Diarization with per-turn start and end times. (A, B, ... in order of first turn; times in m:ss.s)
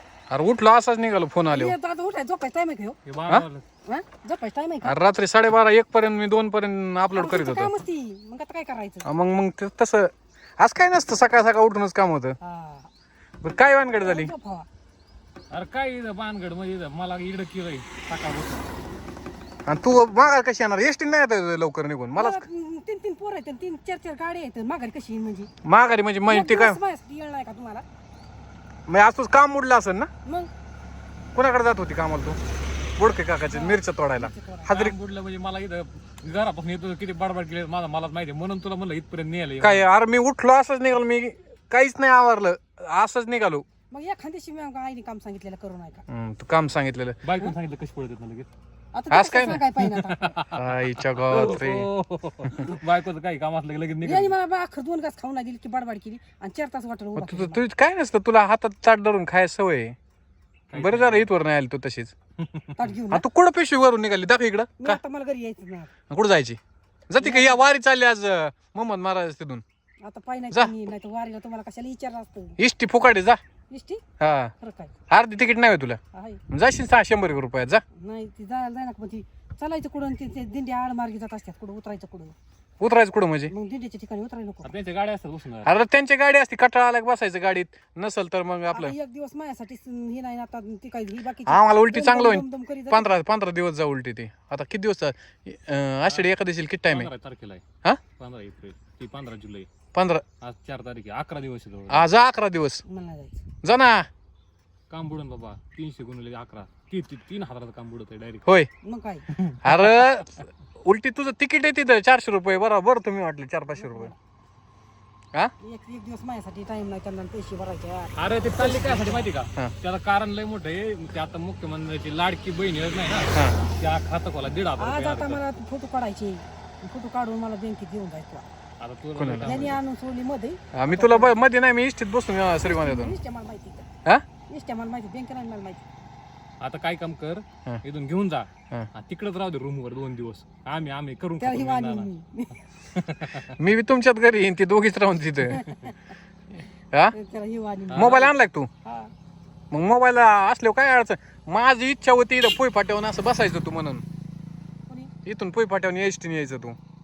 0:00.3-0:01.8 A
0:01.5-0:03.0 B
0:03.1-0:03.6 C
0:03.9-0:04.9 B
0:04.8-0:07.7 A
0:07.1-0:09.1 B
0:09.0-0:12.4 A
0:12.4-0:12.9 B
0:13.4-0:14.3 A
0:14.0-0:14.7 B
0:15.5-0:18.7 C
0:19.7-0:22.4 A
0:22.2-0:25.5 B
0:25.6-0:26.8 A
0:26.3-0:27.8 B
0:28.9-0:30.1 A
0:30.2-0:30.5 B
0:31.4-0:32.4 A
0:33.0-0:35.0 A
0:33.5-0:34.8 B
0:34.7-0:39.9 C
0:39.6-0:43.6 A
0:43.9-0:46.0 B
0:46.1-0:47.2 A
0:47.2-0:48.5 C
0:48.9-0:50.4 B
0:49.1-0:49.7 A
0:49.8-0:50.7 C
0:50.5-0:51.9 A
0:51.2-0:54.4 C
0:54.0-0:57.6 B
0:57.2-1:00.0 A
1:00.7-1:01.3 C
1:00.7-1:02.1 A
1:02.4-1:02.8 C
1:02.8-1:03.2 B
1:03.1-1:05.0 A
1:04.8-1:05.9 B
1:06.1-1:06.6 A
1:07.1-1:09.6 A
1:07.2-1:07.6 B
1:10.0-1:12.6 B
1:12.6-1:13.4 A
1:13.7-1:14.0 B
1:14.2-1:14.5 A
1:14.6-1:15.0 B
1:15.1-1:16.0 A
1:16.1-1:16.4 B
1:16.5-1:17.8 A
1:18.0-1:22.3 B
1:22.8-1:23.5 A
1:23.5-1:24.7 B
1:24.6-1:25.7 C
1:25.6-1:29.0 A
1:28.7-1:33.2 B
1:31.5-1:37.1 A
1:36.9-1:37.6 C
1:38.2-1:39.7 C
1:39.9-1:40.2 A
1:40.4-1:42.1 C
1:41.9-1:42.8 A
1:42.9-1:43.4 B
1:43.6-1:44.1 A
1:44.9-1:48.5 C
1:48.8-1:49.3 B
1:49.3-1:50.1 C
1:49.6-1:54.1 A
1:53.8-1:54.2 B
1:55.6-1:59.3 B
1:58.2-2:05.4 C
2:04.8-2:08.4 B
2:08.8-2:09.8 C
2:09.2-2:09.7 A
2:09.4-2:11.4 B
2:10.7-2:13.2 A
2:12.6-2:13.9 B
2:14.5-2:15.9 B
2:16.6-2:22.1 C
2:21.4-2:22.6 B
2:23.0-2:23.5 C
2:23.4-2:25.7 A
2:25.5-2:26.0 B
2:27.1-2:28.2 B
2:27.9-2:28.3 C
2:27.9-2:28.7 A
2:28.8-2:29.1 B
2:29.7-2:34.0 A
2:35.2-2:36.8 A